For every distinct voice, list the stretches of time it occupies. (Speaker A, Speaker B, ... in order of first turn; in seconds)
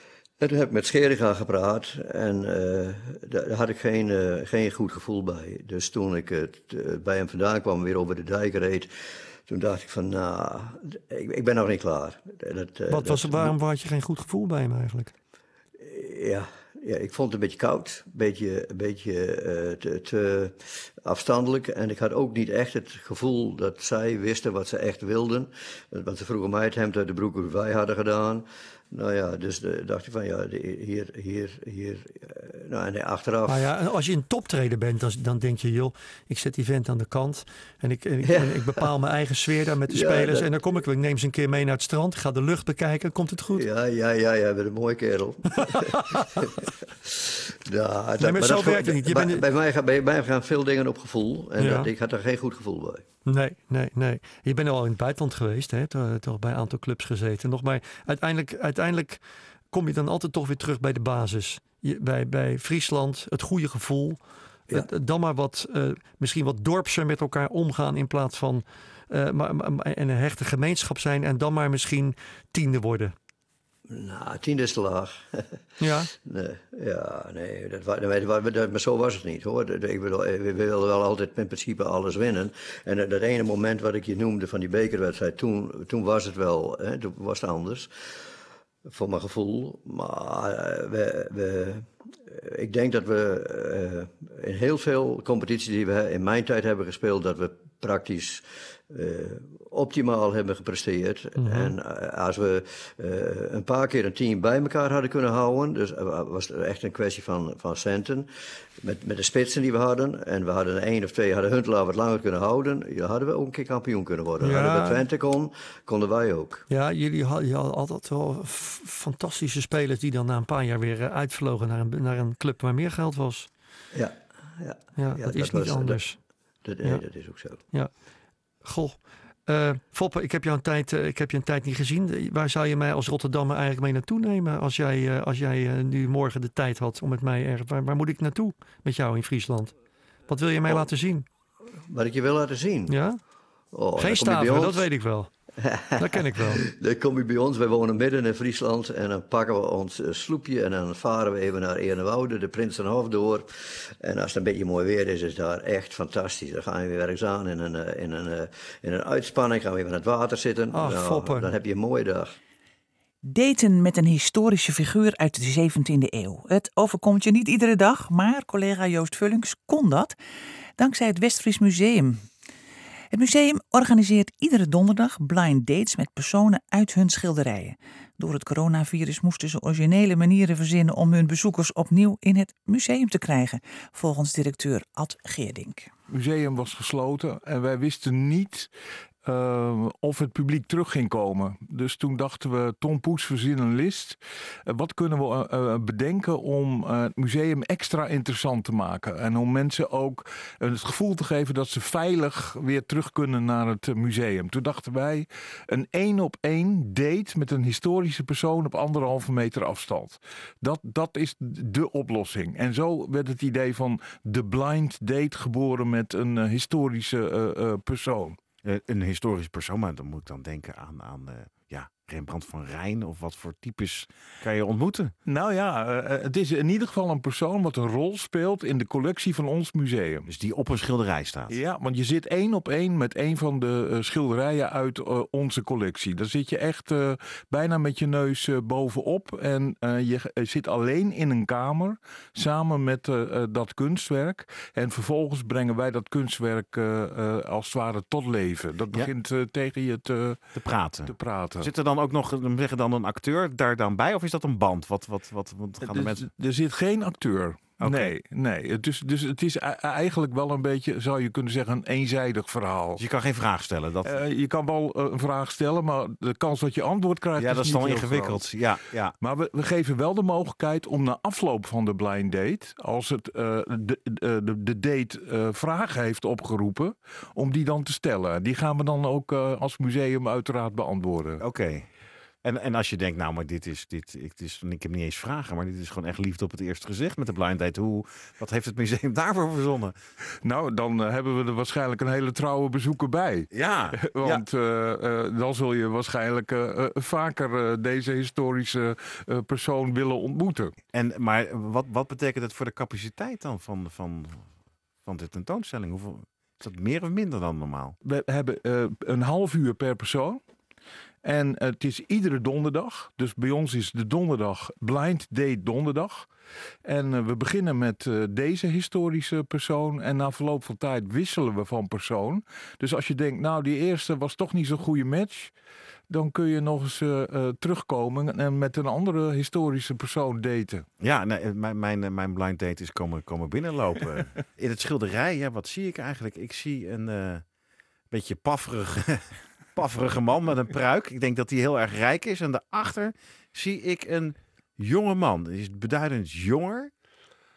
Speaker A: 0.4-8.9, 9.5-13.5, 15.8-33.7, 38.3-38.8, 39.9-40.5, 43.5-53.0, 73.9-75.6, 76.2-87.9, 88.8-108.3, 108.8-116.7, 123.9-127.6, 141.8-143.0, 143.7-144.9, 145.6-162.3
Speaker B: 12.9-15.1, 33.5-43.6, 45.6-46.5, 48.2-49.4, 51.6-51.9, 53.3-73.1, 75.8-76.1, 101.4-101.7, 114.4-115.0, 116.7-123.5, 125.0-126.2, 126.8-127.9, 128.6-139.8, 140.3-141.2, 142.9-143.2, 144.0-145.3, 145.9-146.7, 160.7-161.5
Speaker C: 163.2-170.2, 170.8-172.3, 173.1-185.9
Speaker D: 186.1-188.7, 189.2-218.4, 225.2-230.3, 231.5-251.7, 255.8-263.0, 264.0-268.7, 269.2-281.4, 290.4-300.7, 308.0-310.4, 311.2-316.3, 316.8-325.6, 326.1-330.8
Speaker E: 218.6-225.1, 230.3-231.5, 250.5-256.2, 257.8-258.1, 263.0-264.2, 267.4-269.1, 281.4-281.9, 282.4-289.9, 293.5-294.4, 300.9-307.9, 331.0-337.5, 338.1-346.9